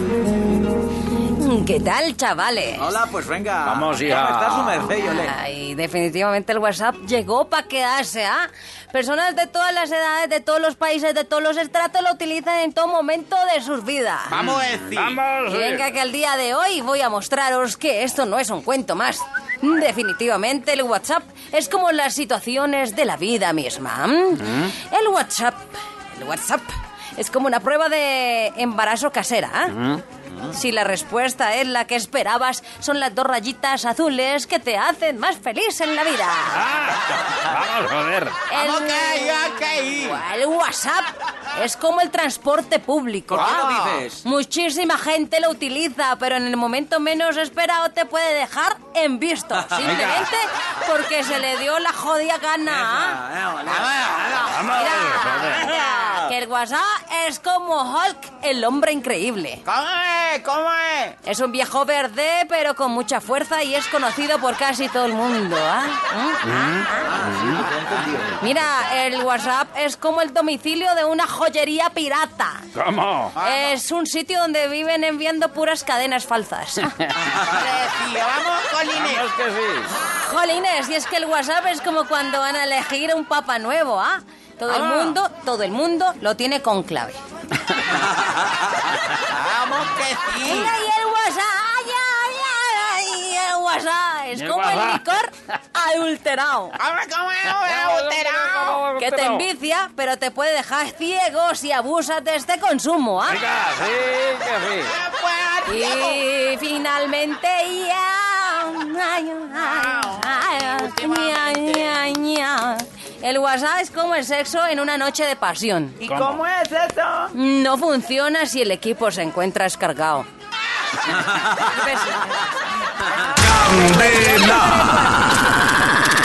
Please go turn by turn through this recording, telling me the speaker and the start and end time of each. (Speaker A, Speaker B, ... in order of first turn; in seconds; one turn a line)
Speaker A: 1.3-3.0
Speaker B: 2.8-5.3
Speaker C: 3.6-4.9
Speaker A: 5.0-14.4
Speaker D: 14.3-15.2
Speaker C: 14.4-15.8
Speaker A: 15.5-36.7
Speaker C: 36.5-38.4
Speaker A: 38.5-53.2
Speaker D: 38.5-40.2
Speaker B: 43.3-44.2
Speaker D: 43.4-44.1
Speaker C: 49.8-50.3
Speaker B: 52.9-54.2
Speaker D: 53.7-54.7
Speaker C: 54.4-55.7
Speaker A: 54.6-59.6
Speaker D: 59.7-61.2
Speaker A: 61.2-67.2
Speaker C: 66.5-67.7
Speaker B: 67.0-68.4
Speaker A: 68.4-72.7
Speaker C: 72.8-73.4
Speaker D: 73.4-73.8
Speaker A: 73.4-77.1
Speaker D: 77.2-79.3
Speaker C: 78.9-79.9
Speaker A: 79.9-87.2
Speaker D: 84.7-85.1
Speaker D: 89.2-90.7
Speaker A: 90.4-96.8
Speaker C: 94.3-95.0
Speaker D: 96.8-98.7
Speaker C: 97.6-99.4
Speaker A: 98.8-103.4
Speaker C: 103.3-104.9
Speaker D: 104.9-106.2
Speaker A: 105.7-116.1
Speaker D: 109.6-112.0
Speaker D: 116.0-117.3
Speaker C: 116.0-116.4
Speaker A: 117.3-120.3
Speaker A: 121.1-125.8
Speaker C: 123.4-125.0